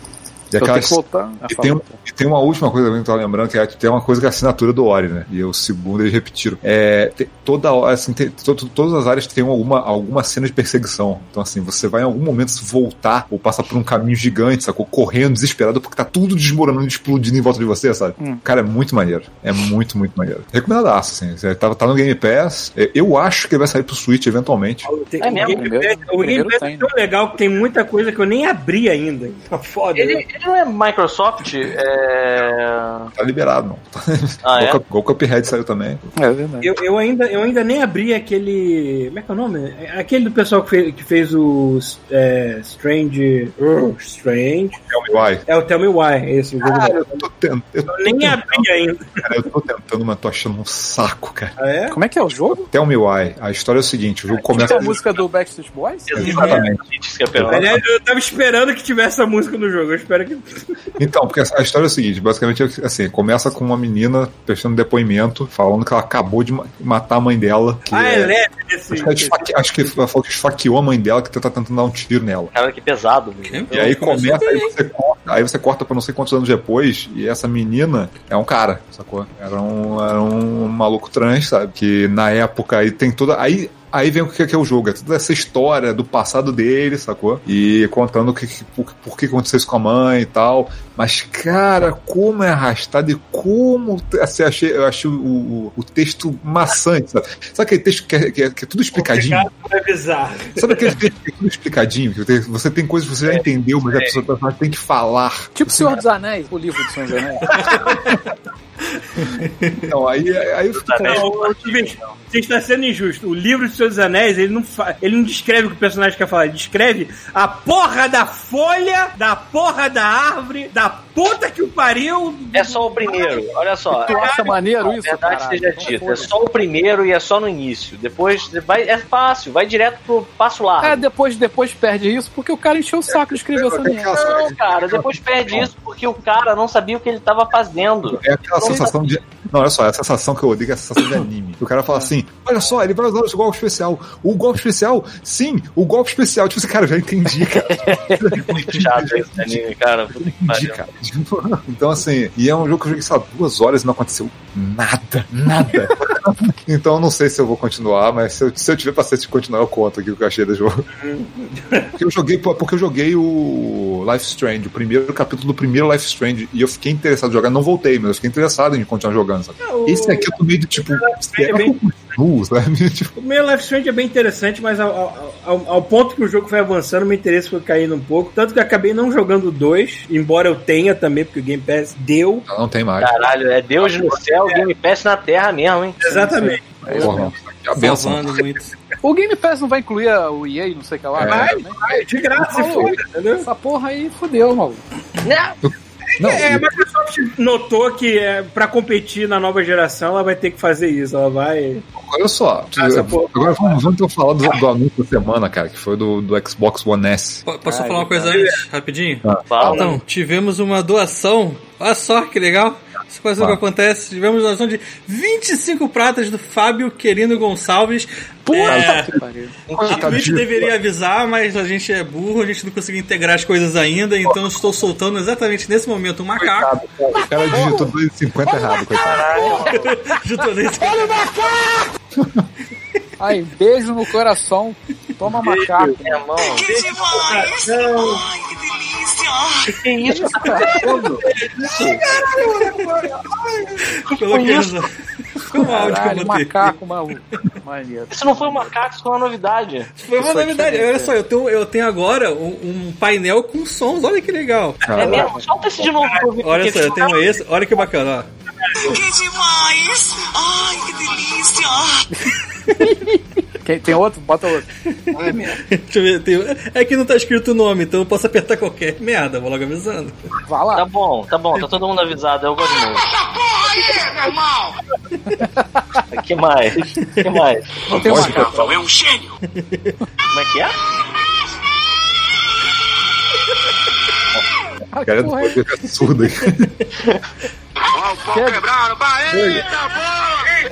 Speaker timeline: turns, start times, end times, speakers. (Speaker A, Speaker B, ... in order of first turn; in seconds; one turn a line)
Speaker A: 0.5-24.9
Speaker B: 0.6-2.0
Speaker C: 24.8-30.2
Speaker D: 25.2-25.6
Speaker B: 25.4-26.9
Speaker D: 29.9-33.1
Speaker A: 33.1-36.1
Speaker D: 34.4-34.8
Speaker B: 36.1-36.7
Speaker C: 36.6-44.8
Speaker A: 44.9-45.4
Speaker C: 45.5-47.2
Speaker A: 46.6-48.7
Speaker C: 47.9-49.2
Speaker A: 49.2-51.5
Speaker C: 51.6-52.0
Speaker B: 51.9-52.7
Speaker A: 52.5-55.0
Speaker B: 54.5-56.2
Speaker D: 56.1-57.7
Speaker A: 56.1-56.8
Speaker E: 56.2-56.7
Speaker A: 57.3-57.8
Speaker C: 57.5-60.6
Speaker A: 61.0-68.3
Speaker C: 67.9-69.6
Speaker A: 68.9-72.5
Speaker D: 72.5-74.0
Speaker E: 73.5-74.7
Speaker A: 73.7-99.5
Speaker C: 98.9-101.0
Speaker A: 100.5-106.0
Speaker D: 103.3-104.2
Speaker B: 105.5-107.5
Speaker E: 107.5-108.2
Speaker E: 109.2-109.9
Speaker A: 109.9-111.3
Speaker D: 110.7-111.8
Speaker C: 111.0-124.6
Speaker D: 122.5-131.0
Speaker B: 124.0-126.3
Speaker B: 130.8-134.4
Speaker A: 133.1-135.7
Speaker D: 134.1-138.9
Speaker A: 138.1-160.8
Speaker D: 147.7-150.8
Speaker C: 160.9-161.9
Speaker A: 162.0-173.1
Speaker C: 169.6-171.7
Speaker C: 173.2-182.4
Speaker A: 182.5-183.1
Speaker D: 183.0-186.2
Speaker C: 186.0-187.2
Speaker B: 186.0-187.3
Speaker A: 186.8-188.6
Speaker E: 187.7-188.7
Speaker B: 189.0-194.8
Speaker A: 191.1-191.6
Speaker C: 191.2-193.5
Speaker A: 192.6-192.9
Speaker D: 195.2-195.5
Speaker A: 195.6-196.8
Speaker C: 196.2-201.8
Speaker A: 202.0-207.4
Speaker C: 202.8-203.8
Speaker E: 207.4-219.2
Speaker B: 207.6-208.5
Speaker A: 209.2-210.0
Speaker D: 209.5-209.8
Speaker B: 218.4-219.6
Speaker A: 218.7-219.2
Speaker D: 219.7-220.1
Speaker A: 219.7-220.7
Speaker E: 219.9-226.7
Speaker A: 226.3-229.6
Speaker B: 227.5-227.9
Speaker B: 228.4-229.8
Speaker D: 228.9-229.9
Speaker E: 229.7-231.3
Speaker F: 230.8-231.6
Speaker A: 232.2-232.4
Speaker B: 233.2-236.3
Speaker D: 235.5-236.8
Speaker F: 236.4-241.1
Speaker C: 236.7-238.2
Speaker D: 239.6-242.0
Speaker B: 240.1-240.9
Speaker C: 240.7-243.8
Speaker E: 244.1-244.9
Speaker B: 244.2-244.7
Speaker B: 245.5-248.7
Speaker E: 245.5-246.7
Speaker D: 248.1-249.9
Speaker E: 250.0-254.8
Speaker B: 250.2-251.1
Speaker A: 254.8-255.3
Speaker D: 254.9-257.2
Speaker E: 256.4-258.3
Speaker F: 258.8-262.4
Speaker B: 262.8-264.6
Speaker C: 265.1-265.6
Speaker E: 265.1-270.2
Speaker B: 270.4-270.8
Speaker D: 270.7-273.1
Speaker F: 273.6-274.5
Speaker B: 275.3-276.0
Speaker D: 276.1-278.0
Speaker B: 277.9-278.8
Speaker A: 278.0-278.6
Speaker F: 278.2-279.4
Speaker E: 279.5-280.0
Speaker D: 280.3-280.7
Speaker B: 284.9-286.0
Speaker A: 285.0-286.7
Speaker F: 287.9-290.5
Speaker B: 288.3-288.6
Speaker A: 289.3-289.6